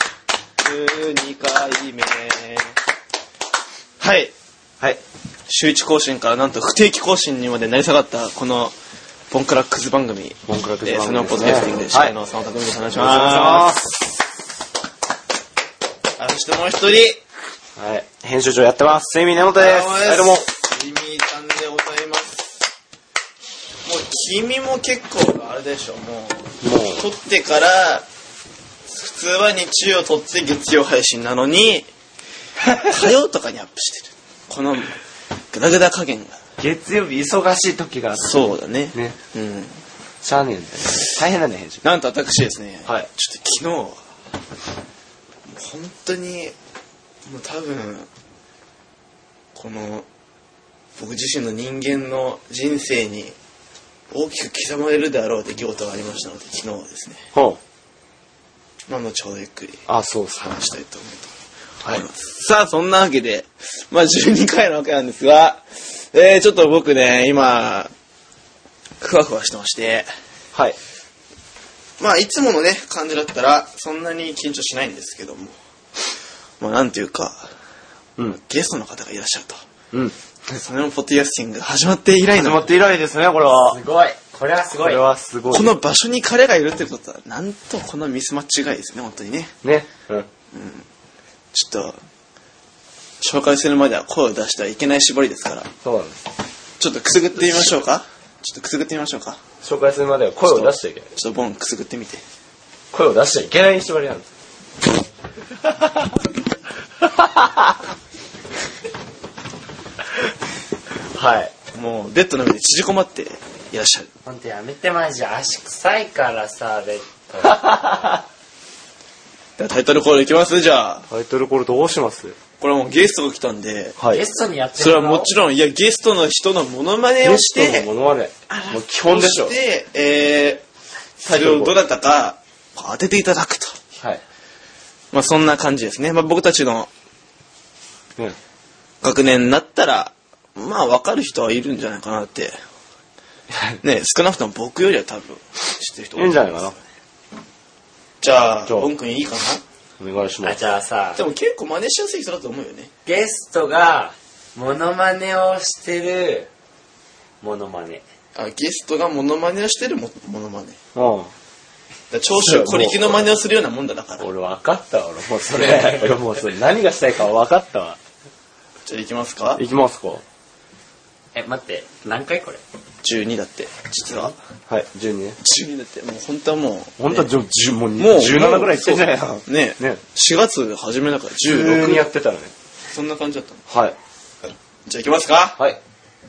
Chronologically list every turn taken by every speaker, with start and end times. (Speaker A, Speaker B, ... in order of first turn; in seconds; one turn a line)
Speaker A: 0.6-2.7
Speaker A: 4.0-4.3
Speaker A: 5.5-8.7
Speaker A: 9.3-13.9
Speaker B: 10.5-12.1
Speaker B: 12.9-13.9
Speaker A: 16.2-17.2
Speaker B: 17.8-20.5
Speaker A: 19.5-22.6
Speaker A: 23.8-28.0
Speaker B: 26.6-27.1
Speaker A: 28.9-31.9
Speaker A: 32.8-35.0
Speaker A: 35.5-36.4
Speaker B: 36.6-39.2
Speaker A: 38.2-39.8
Speaker B: 40.2-41.8
Speaker A: 41.8-44.0
Speaker A: 45.5-46.5
Speaker A: 47.2-48.1
Speaker A: 49.5-50.0
Speaker A: 51.0-53.3
Speaker A: 54.1-57.2
Speaker B: 57.3-57.6
Speaker A: 58.9-59.8
Speaker B: 59.9-60.6
Speaker A: 60.4-61.3
Speaker A: 61.8-67.9
Speaker A: 69.0-70.1
Speaker A: 72.0-75.5
Speaker A: 76.6-77.5
Speaker A: 78.3-79.6
Speaker A: 80.5-82.8
Speaker B: 82.3-83.8
Speaker C: 83.6-85.0
Speaker B: 84.8-85.8
Speaker A: 85.5-89.5
Speaker B: 89.6-90.3
Speaker A: 90.5-90.8
Speaker A: 91.5-92.0
Speaker A: 93.2-95.7
Speaker B: 95.8-96.2
Speaker A: 96.8-99.4
Speaker B: 99.6-101.1
Speaker A: 100.5-102.2
Speaker B: 102.9-104.2
Speaker B: 105.7-106.1
Speaker B: 107.2-107.5
Speaker B: 111.1-111.5
Speaker A: 111.7-114.1
Speaker C: 114.2-118.2
Speaker A: 119.6-121.1
Speaker B: 121.1-122.3
Speaker A: 122.6-124.0
Speaker B: 124.0-124.2
Speaker C: 124.1-125.3
Speaker A: 124.8-127.9
Speaker B: 127.2-129.6
Speaker A: 129.1-130.6
Speaker A: 131.2-133.8
Speaker B: 131.2-131.8
Speaker A: 135.1-136.9
Speaker A: 139.0-142.6
Speaker B: 143.5-143.8
Speaker A: 143.8-146.8
Speaker B: 146.2-146.7
Speaker A: 148.2-149.6
Speaker B: 150.0-150.6
Speaker C: 150.4-151.2
Speaker A: 151.2-152.9
Speaker C: 153.0-156.5
Speaker C: 157.4-158.0
Speaker A: 158.3-160.8
Speaker B: 160.9-161.3
Speaker A: 162.1-164.3
Speaker B: 162.4-163.2
Speaker B: 164.2-168.0
Speaker A: 168.8-169.6
Speaker B: 169.6-170.2
Speaker C: 171.3-172.6
Speaker A: 173.0-174.3
Speaker B: 174.7-175.4
Speaker A: 175.4-177.3
Speaker B: 177.0-180.0
Speaker A: 177.9-182.1
Speaker B: 181.5-182.5
Speaker A: 182.9-183.6
Speaker B: 183.7-183.9
Speaker A: 184.8-185.6